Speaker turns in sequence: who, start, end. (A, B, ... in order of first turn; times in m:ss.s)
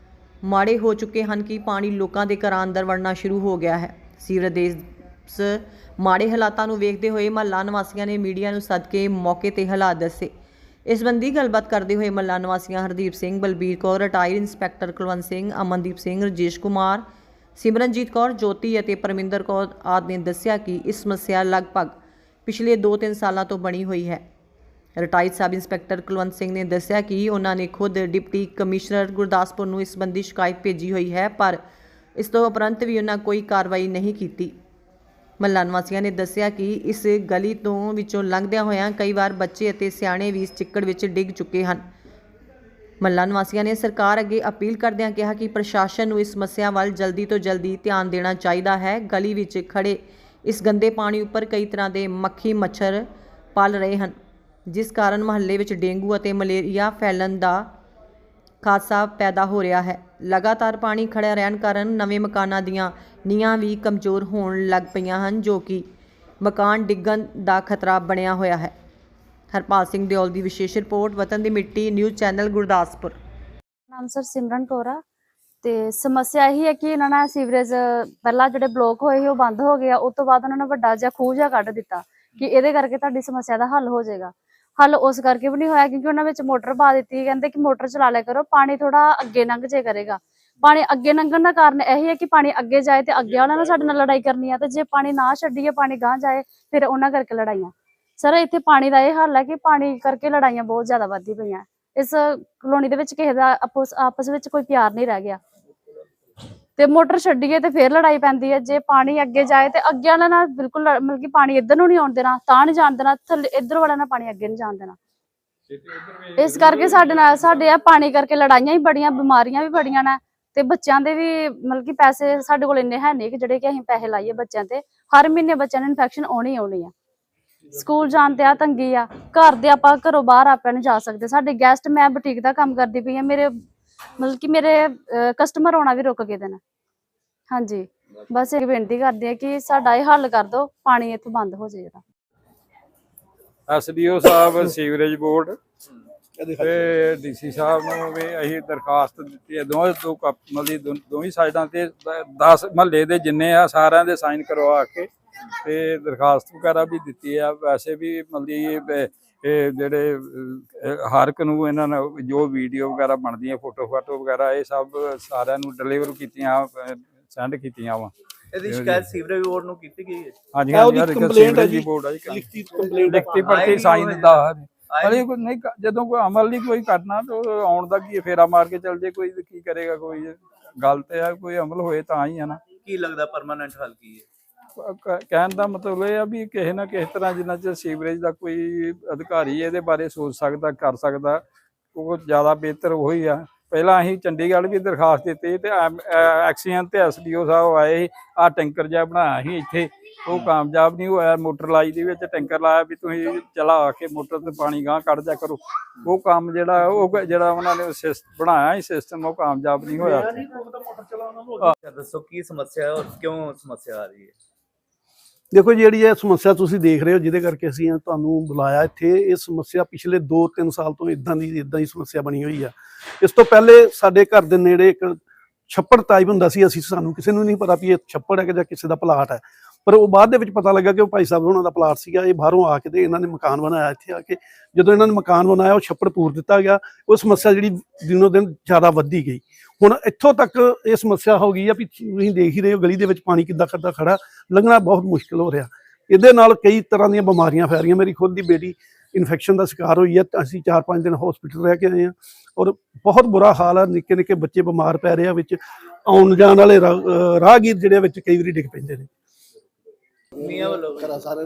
0:00.4-0:10.3 A
0:10.9-0:17.0 A
0:17.6-0:21.9 A
0:22.4-0:24.2 A
0:25.0-0:31.6 A
0:32.2-0:34.5 A
0:35.4-0:41.8 A
0:43.0-0:54.1 A
0:54.7-0:57.7 A
0:58.6-1:05.8 A
1:06.4-1:08.7 A
1:09.5-1:13.2 A
1:13.9-1:15.0 B
1:15.6-1:45.4 B
1:46.8-1:55.0 B
1:55.7-1:57.6 C
1:56.4-2:06.9 B
2:07.7-2:13.5 B
2:14.2-2:16.6 B
2:17.5-2:22.0 B
2:23.7-2:25.6 C
2:26.4-2:26.9 D
2:26.6-2:35.1 C
2:35.6-2:48.1 C
2:48.5-2:50.4 E
2:48.6-2:49.0 C
2:50.5-2:52.4 C
2:50.7-2:53.4 D
2:53.0-3:02.6 C
2:53.2-2:55.2 E
3:02.8-3:04.3 E
3:04.8-3:11.4 C
3:11.9-3:30.4 C
3:29.9-3:31.7 D
3:31.6-3:34.3 E
3:35.5-4:19.1 D
4:20.4-4:21.3 E